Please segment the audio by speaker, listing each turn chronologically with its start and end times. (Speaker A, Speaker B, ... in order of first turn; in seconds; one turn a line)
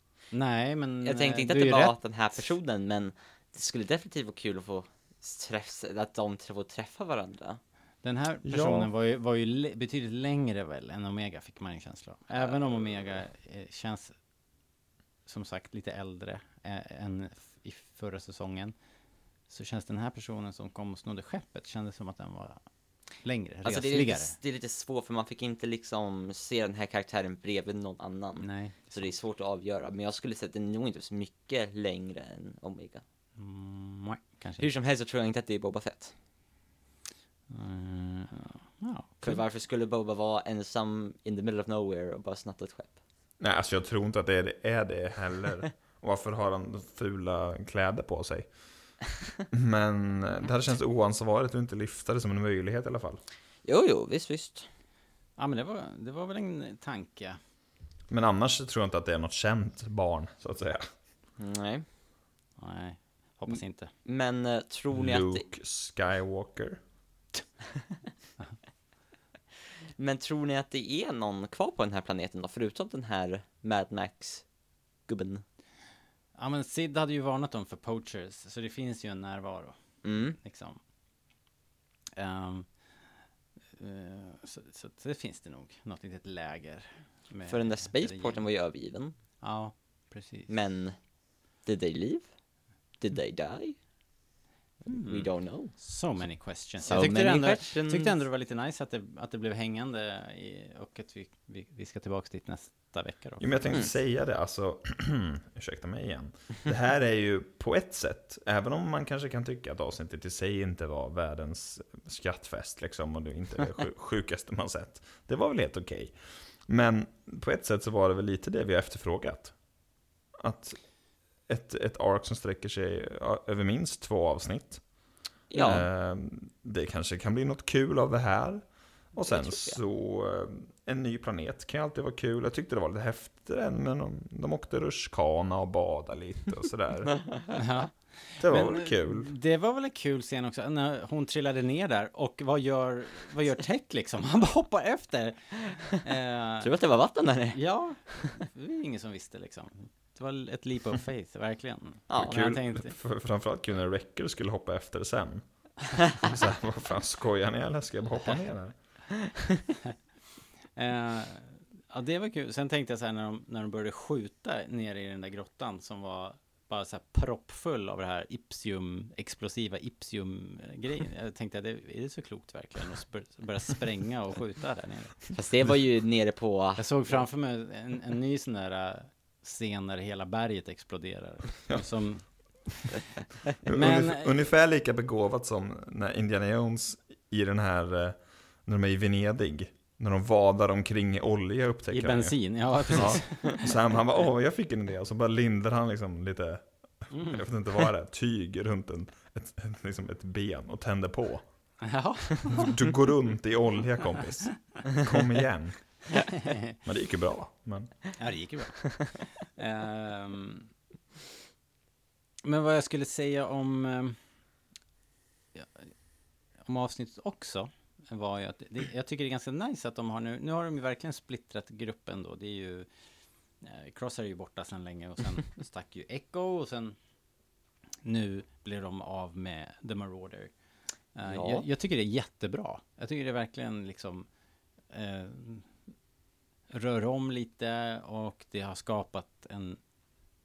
Speaker A: 0.3-2.5
Speaker B: 1.0-7.6
Speaker A: 8.0-14.2
Speaker C: 8.4-8.9
Speaker A: 15.2-18.7
Speaker A: 19.5-22.6
Speaker A: 23.1-24.3
Speaker B: 23.6-33.0
Speaker A: 28.4-29.1
Speaker A: 33.4-34.7
Speaker B: 34.6-36.1
Speaker A: 37.5-39.4
Speaker B: 39.2-43.0
Speaker C: 43.4-48.6
Speaker C: 49.5-53.2
Speaker B: 53.6-54.7
Speaker A: 55.4-57.4
Speaker C: 58.1-60.9
Speaker B: 61.4-61.8
Speaker A: 62.6-63.9
Speaker B: 63.5-65.4
Speaker C: 64.9-66.8
Speaker B: 70.0-74.5
Speaker B: 75.0-75.4
Speaker A: 76.3-80.8
Speaker B: 80.0-80.4
Speaker A: 82.2-82.7
Speaker A: 83.8-88.4
Speaker B: 87.5-89.2
Speaker A: 89.4-90.5
Speaker B: 90.5-91.0
Speaker B: 91.6-92.3
Speaker B: 93.0-93.8
Speaker B: 94.8-95.7
Speaker A: 94.9-103.8
Speaker B: 96.8-98.1
Speaker C: 103.4-119.6
Speaker C: 120.4-120.8
Speaker C: 121.5-124.9
Speaker B: 125.5-125.8
Speaker C: 125.5-137.2
Speaker B: 129.3-129.8
Speaker B: 137.1-137.4
Speaker A: 137.6-146.7
Speaker C: 138.4-139.3
Speaker B: 146.6-148.2
Speaker A: 147.5-152.9
Speaker B: 152.1-152.6
Speaker C: 152.1-158.8
Speaker A: 160.8-175.3
Speaker B: 175.3-177.2
Speaker A: 176.8-182.4
Speaker C: 183.6-201.4
Speaker A: 183.7-184.3
Speaker A: 191.9-193.6
Speaker B: 192.9-193.5
Speaker A: 197.1-197.4
Speaker A: 201.8-202.8
Speaker C: 202.5-206.2
Speaker C: 206.8-208.0
Speaker A: 208.2-210.7
Speaker A: 212.4-214.2
Speaker A: 215.5-215.9
Speaker A: 216.6-222.9
Speaker A: 223.6-226.9
Speaker A: 228.0-230.5
Speaker A: 231.1-234.3
Speaker B: 231.3-231.6
Speaker A: 234.9-235.7
Speaker A: 236.7-239.8